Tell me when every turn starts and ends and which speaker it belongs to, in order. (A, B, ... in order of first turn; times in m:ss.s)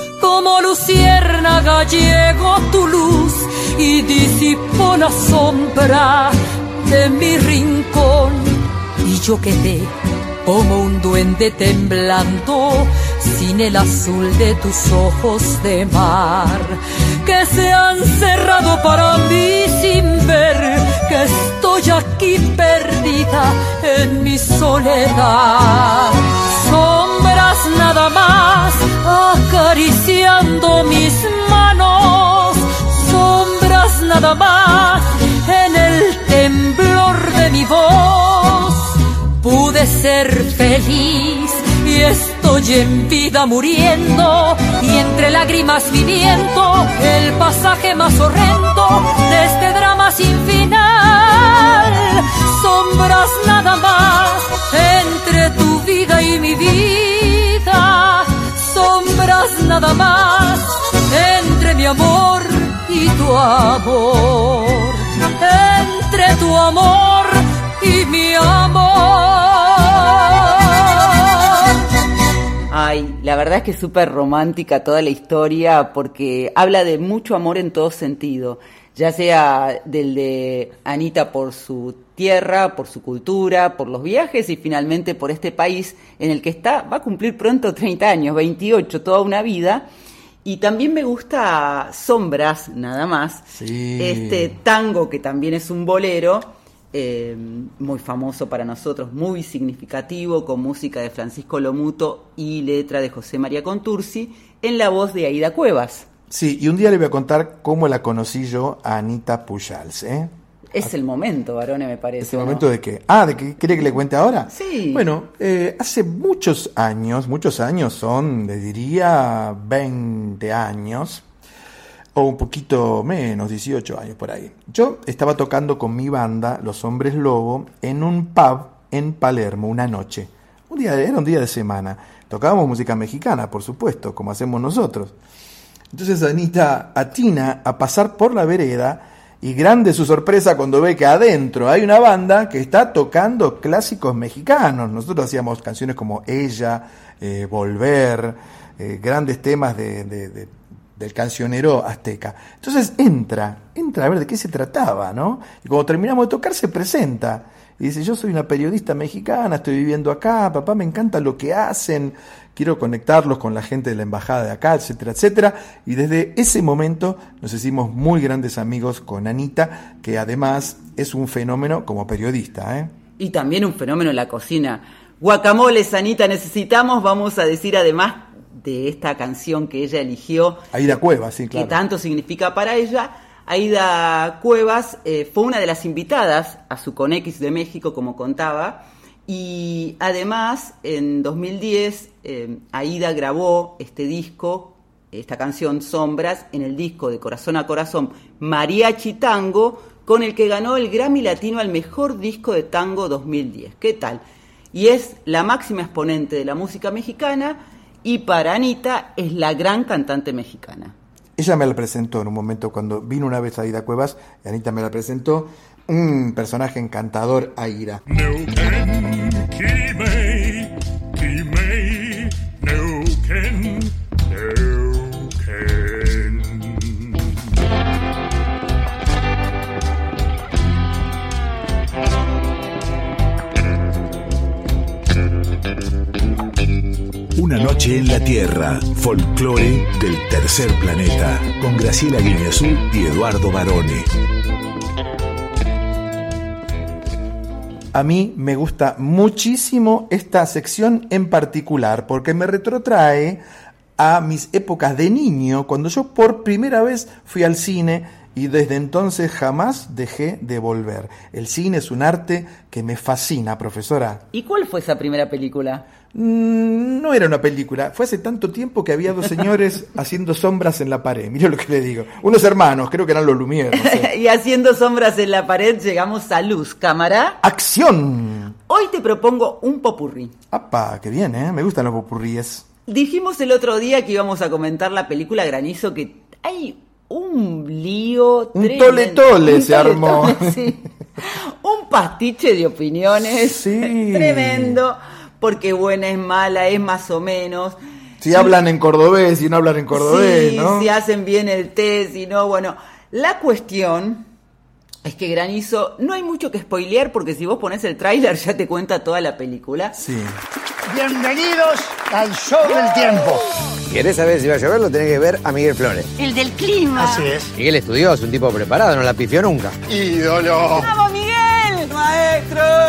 0:00.2-1:11.1 A
1:12.7-1:29.9 B
1:30.4-1:46.1 B
1:33.5-1:34.6 C
1:46.3-1:50.9 C
1:50.7-1:52.6 B
1:52.2-2:01.2 C
1:54.5-1:55.0 B
2:02.1-2:15.1 C
2:15.9-2:52.9 C
2:53.2-3:00.7 B
3:00.7-3:01.8 C
3:01.5-3:30.9 B
3:31.4-3:38.0 C
3:57.4-4:04.1 D
4:07.9-4:13.4 C
4:14.0-4:24.2 C
4:24.3-4:25.8 B
4:26.1-4:34.1 C
4:33.8-4:37.4 B
4:37.4-4:38.5 C
4:38.7-4:40.3 B
4:40.5-4:42.6 C
4:42.9-4:57.8 B
4:48.5-4:50.7 C
4:53.2-4:54.8 C
4:58.2-5:00.9 C
4:59.9-5:04.3 B
5:05.0-5:10.0 B
5:09.9-5:10.4 C
5:10.9-5:13.5 E
5:13.8-5:16.1 F
5:16.2-5:17.1 B
5:17.0-5:17.5 E
5:17.6-5:19.8 F
5:19.8-5:20.9 E
5:21.1-5:22.6 B